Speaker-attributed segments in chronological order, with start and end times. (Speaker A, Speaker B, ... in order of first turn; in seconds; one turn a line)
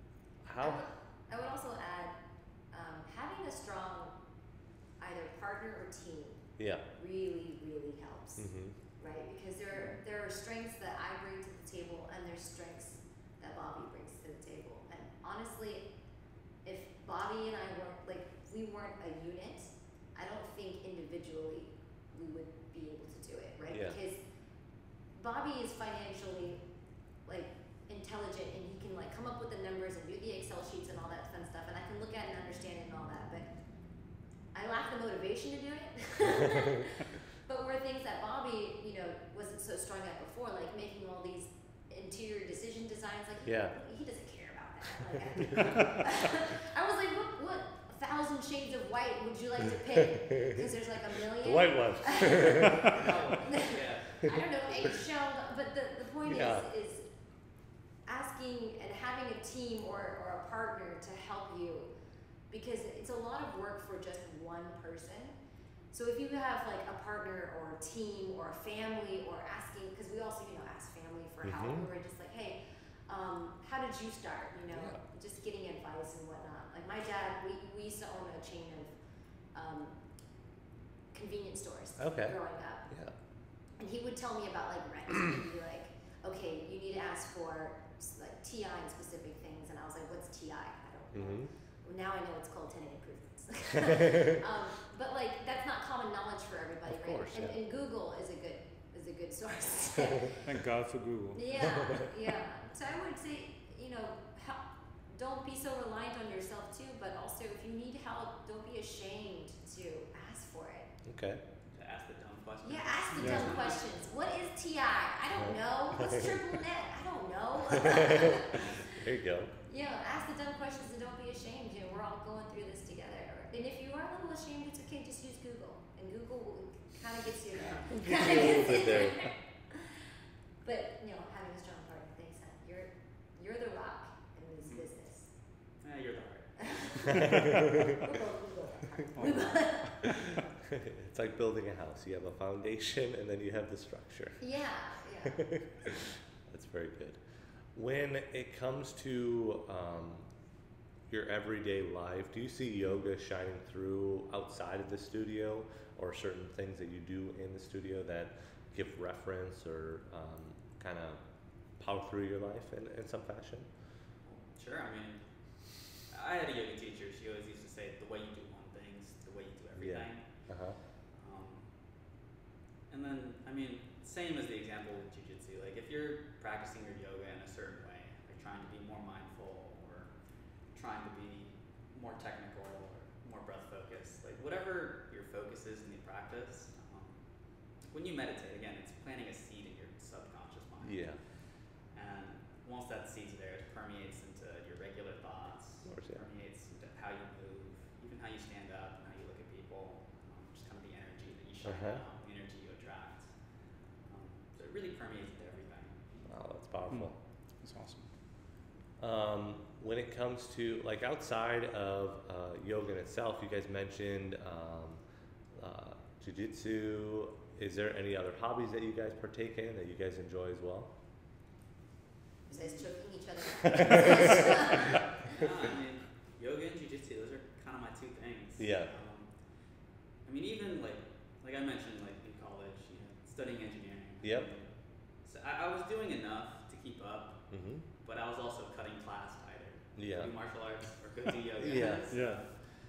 Speaker A: 0.4-0.8
Speaker B: 0.6-2.2
Speaker B: 2.7-4.1
Speaker B: 5.0-8.5
Speaker A: 6.6-6.8
Speaker A: 8.4-8.8
Speaker B: 9.0-15.9
Speaker B: 16.6-24.2
Speaker A: 23.7-24.0
Speaker B: 25.1-26.6
Speaker B: 27.2-33.5
Speaker B: 34.5-57.1
Speaker A: 43.5-43.7
Speaker A: 45.4-45.8
Speaker A: 50.0-50.6
Speaker A: 51.3-53.1
Speaker C: 52.8-55.0
Speaker A: 56.2-56.7
Speaker B: 58.0-61.9
Speaker B: 62.5-65.3
Speaker B: 65.9-78.9
Speaker A: 71.4-71.8
Speaker A: 74.7-75.0
Speaker B: 79.5-80.0
Speaker B: 81.1-82.9
Speaker A: 82.0-82.4
Speaker A: 82.9-83.1
Speaker B: 83.8-100.4
Speaker A: 91.1-91.5
Speaker A: 96.9-97.5
Speaker D: 100.4-101.4
Speaker B: 101.3-110.9
Speaker A: 101.6-102.1
Speaker A: 111.0-111.4
Speaker C: 111.7-113.8
Speaker B: 112.6-118.9
Speaker D: 113.2-113.5
Speaker A: 115.3-116.4
Speaker A: 117.8-119.5
Speaker B: 119.7-129.3
Speaker A: 127.9-129.3
Speaker B: 130.6-135.3
Speaker C: 135.8-137.3
Speaker B: 136.6-140.5
Speaker A: 137.2-138.0
Speaker D: 139.1-140.0
Speaker A: 140.7-144.4
Speaker B: 144.4-145.5
Speaker A: 145.2-147.2
Speaker A: 147.7-150.3
Speaker A: 151.1-161.2
Speaker A: 161.8-163.7
Speaker C: 164.2-165.2
Speaker C: 166.0-170.2
Speaker A: 169.8-170.8
Speaker C: 171.1-171.7
Speaker C: 172.9-180.1
Speaker C: 180.7-187.2
Speaker C: 187.9-191.2
Speaker A: 190.8-191.2
Speaker C: 191.9-203.3
Speaker A: 195.8-196.2
Speaker A: 201.6-202.0
Speaker C: 204.0-206.2
Speaker A: 206.3-207.2
Speaker D: 206.9-208.0
Speaker A: 209.0-215.0
Speaker A: 215.5-220.9
Speaker B: 222.5-225.0
Speaker C: 222.5-222.8
Speaker A: 223.7-224.3
Speaker C: 225.3-229.3
Speaker A: 228.6-228.9
Speaker C: 230.2-234.7
Speaker A: 234.2-234.5
Speaker C: 235.2-237.4
Speaker A: 237.5-237.8
Speaker C: 238.0-242.5
Speaker A: 240.0-240.3
Speaker A: 241.6-242.1
Speaker D: 242.1-242.4